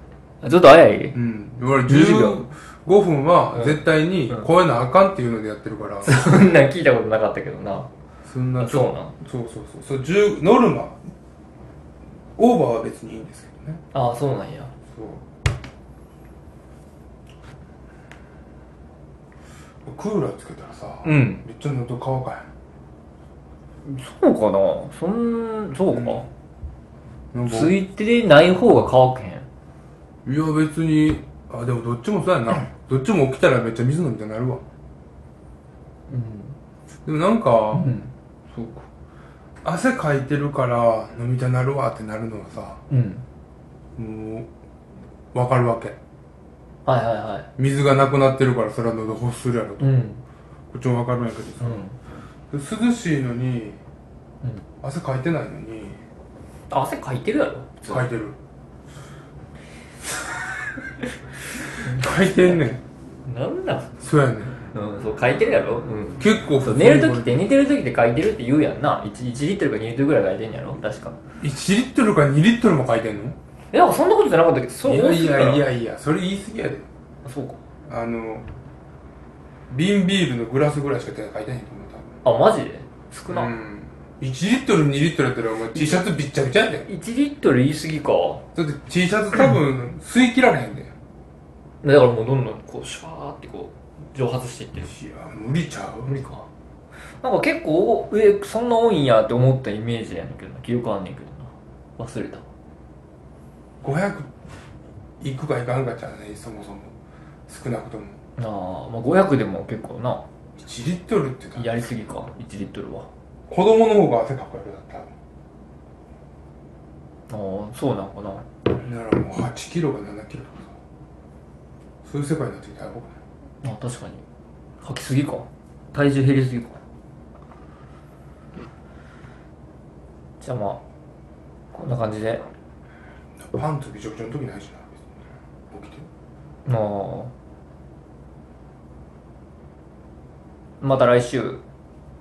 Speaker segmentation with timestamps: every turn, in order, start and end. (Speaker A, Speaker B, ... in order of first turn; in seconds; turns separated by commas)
Speaker A: 0.4-1.2, Speaker B: 1.1-6.3, Speaker A: 1.8-2.5, Speaker A: 3.5-4.5, Speaker A: 6.0-7.9, Speaker B: 8.2-11.0, Speaker A: 8.6-9.1, Speaker B: 12.4-13.8, Speaker A: 13.9-14.7, Speaker B: 14.9-15.2, Speaker B: 19.9-22.5, Speaker A: 21.0-21.4, Speaker A: 23.9-26.3, Speaker B: 25.9-26.3, Speaker B: 27.3-27.8, Speaker A: 27.4-29.5, Speaker B: 30.2-34.6, Speaker A: 36.1-36.6, Speaker B: 37.1-38.0, Speaker A: 37.8-38.1, Speaker B: 38.5-38.8, Speaker B: 39.6-42.8, Speaker A: 42.9-43.2, Speaker B: 44.0-44.5, Speaker B: 45.3-46.0, Speaker A: 46.9-47.5, Speaker B: 47.6-50.0, Speaker A: 49.8-50.2, Speaker B: 50.7-51.9, Speaker A: 51.6-52.0, Speaker B: 52.5-53.8, Speaker B: 54.8-56.0, Speaker A: 56.7-58.0, Speaker B: 57.9-58.4, Speaker A: 61.6-62.7, Speaker B: 61.8-62.8, Speaker A: 63.2-64.0, Speaker B: 64.0-64.6, Speaker A: 64.7-71.2, Speaker B: 66.2-67.4, Speaker B: 71.4-73.4, Speaker A: 73.7-75.7, Speaker B: 74.8-76.9, Speaker A: 77.2-77.6, Speaker B: 77.9-78.5, Speaker B: 79.7-82.2, Speaker A: 82.2-83.5, Speaker B: 83.3-86.9, Speaker A: 85.7-86.1, Speaker A: 86.8-88.4, Speaker B: 88.5-90.9, Speaker A: 91.8-94.9, Speaker B: 94.8-96.1, Speaker A: 96.0-96.5, Speaker A: 97.2-102.4, Speaker B: 103.8-104.3, Speaker B: 105.2-106.9, Speaker B: 107.5-108.2, Speaker A: 108.4-110.2, Speaker B: 110.6-111.7, Speaker A: 111.5-113.1, Speaker B: 113.5-115.1, Speaker A: 117.3-118.5, Speaker B: 118.7-120.8, Speaker B: 122.0-123.1, Speaker A: 123.6-124.2, Speaker A: 124.8-126.8, Speaker A: 130.4-130.8, Speaker A: 131.7-132.4, Speaker B: 133.4-135.1, Speaker B: 135.7-136.1, Speaker A: 136.7-137.3, Speaker A: 140.8-141.6